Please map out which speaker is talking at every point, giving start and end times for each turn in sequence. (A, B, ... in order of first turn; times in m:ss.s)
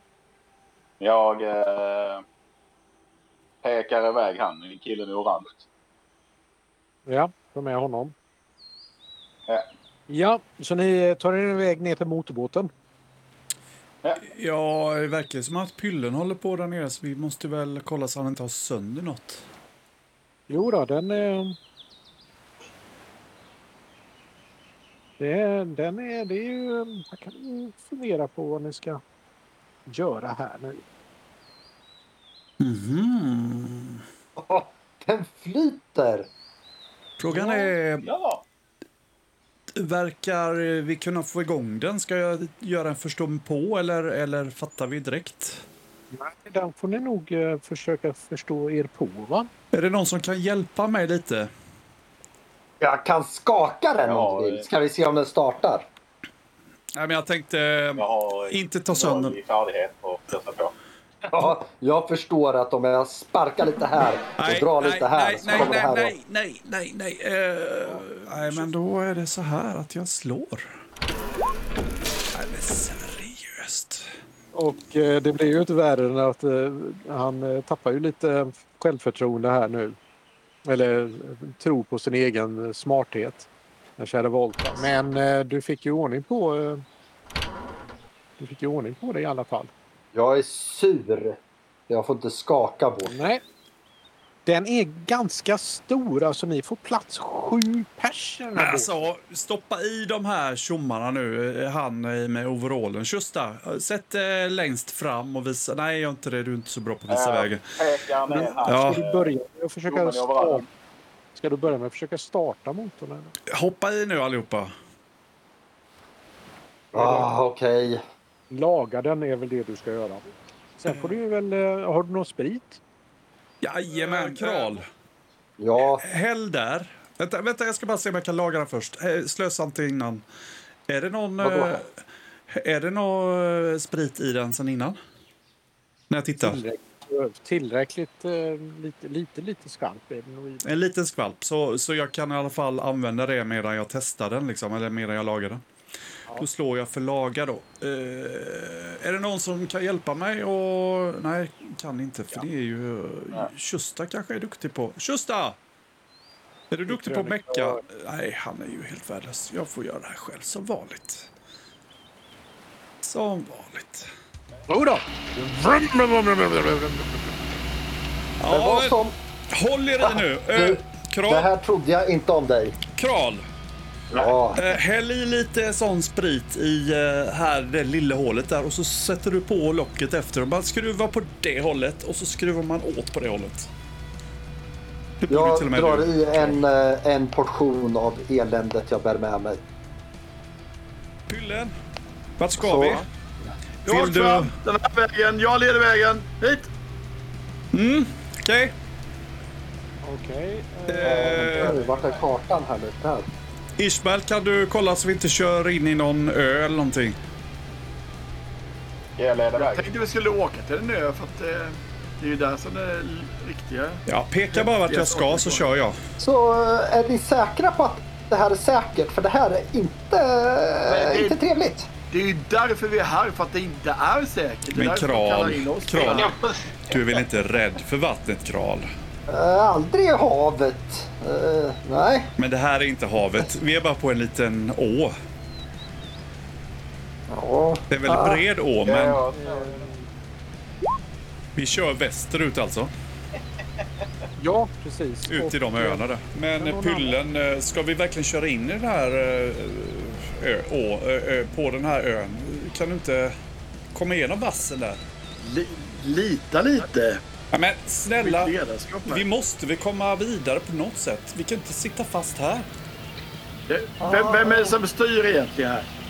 0:01.0-0:02.2 A
0:03.6-0:05.6 A
0:07.1-0:08.1 B
0:10.1-0:12.7 B
0:14.2-0:19.4 C
0:20.5-0:21.6 B
0:25.2-0:29.0 B
0:29.9-0:30.8 B
0:32.6-0:34.0 C
0:34.4-0:36.3 D
0:37.2-0:38.1 C
0:37.3-0:37.7 B
0:38.0-0:38.4 A
0:39.7-0:45.6 C
0:46.1-0:49.5 B
0:49.7-0:51.5 C
0:52.8-0:55.9 D
0:54.0-0:54.7 A
0:56.9-0:59.4 C
0:58.0-1:00.7 A
1:01.3-1:06.1 D
1:04.4-1:10.7 C
1:07.8-1:08.7 B
1:12.3-1:14.0 C
1:14.5-1:20.0 B
1:20.6-1:26.8 B
1:28.4-1:29.7 B
1:30.1-1:33.1 D
1:33.0-1:33.4 B
1:34.4-1:39.1 B
1:38.6-1:47.7 C
1:47.1-1:49.3 A
1:48.3-1:50.6 B
1:48.6-1:49.0 C
1:49.9-1:50.7 A
1:51.3-1:53.3 B
1:53.5-1:54.7 C
1:56.9-1:58.0 D
1:56.9-1:57.3 B
1:58.5-2:02.8 B
2:00.9-2:01.2 C
2:03.6-2:04.8 C
2:04.0-2:04.6 B
2:05.6-2:06.0 D
2:05.8-2:10.2 C
2:10.9-2:11.9 C
2:11.4-2:11.7 D
2:12.5-2:15.0 C
2:16.1-2:16.6 C
2:16.4-2:20.6 B
2:20.6-2:25.6 C
2:26.3-2:35.6 C
2:36.7-2:41.3 C
2:36.9-2:37.8 B
2:43.0-2:44.1 C
2:44.7-2:47.4 B
2:48.4-2:49.0 C
2:48.5-2:49.1 D
2:49.5-2:51.5 C
2:50.0-2:52.8 D
2:52.8-2:53.4 C
2:54.1-2:54.8 D
2:54.5-3:03.7 C
3:05.2-3:06.6 C
3:05.3-3:09.6 D
3:11.3-3:11.7 C
3:12.4-3:13.0 C
3:12.6-3:13.5 D
3:13.8-3:14.5 C
3:13.8-3:16.7 E
3:17.7-3:18.7 C
3:20.0-3:21.9 B
3:20.9-3:21.8 C
3:21.0-3:23.3 D
3:23.8-3:27.2 C
3:29.2-3:29.8 A
3:29.6-3:35.7 E
3:34.1-3:36.0 C
3:36.2-3:41.9 D
3:40.8-3:41.4 E
3:42.1-3:46.3 E
3:44.7-3:46.3 C
3:46.0-3:47.2 A
3:46.9-3:48.8 C
3:49.3-3:52.3 D
3:52.4-3:55.1 C
3:57.3-3:58.4 D
3:57.9-3:59.2 C
3:58.8-3:59.9 A
3:59.3-4:00.1 B
4:01.6-4:02.9 C
4:04.4-4:06.0 B
4:05.3-4:13.3 C
4:06.6-4:07.2 B
4:13.9-4:15.0 C
4:15.4-4:17.2 E
4:17.5-4:18.5 C
4:18.2-4:19.2 E
4:19.1-4:22.6 C
4:23.7-4:25.9 E
4:24.0-4:24.8 D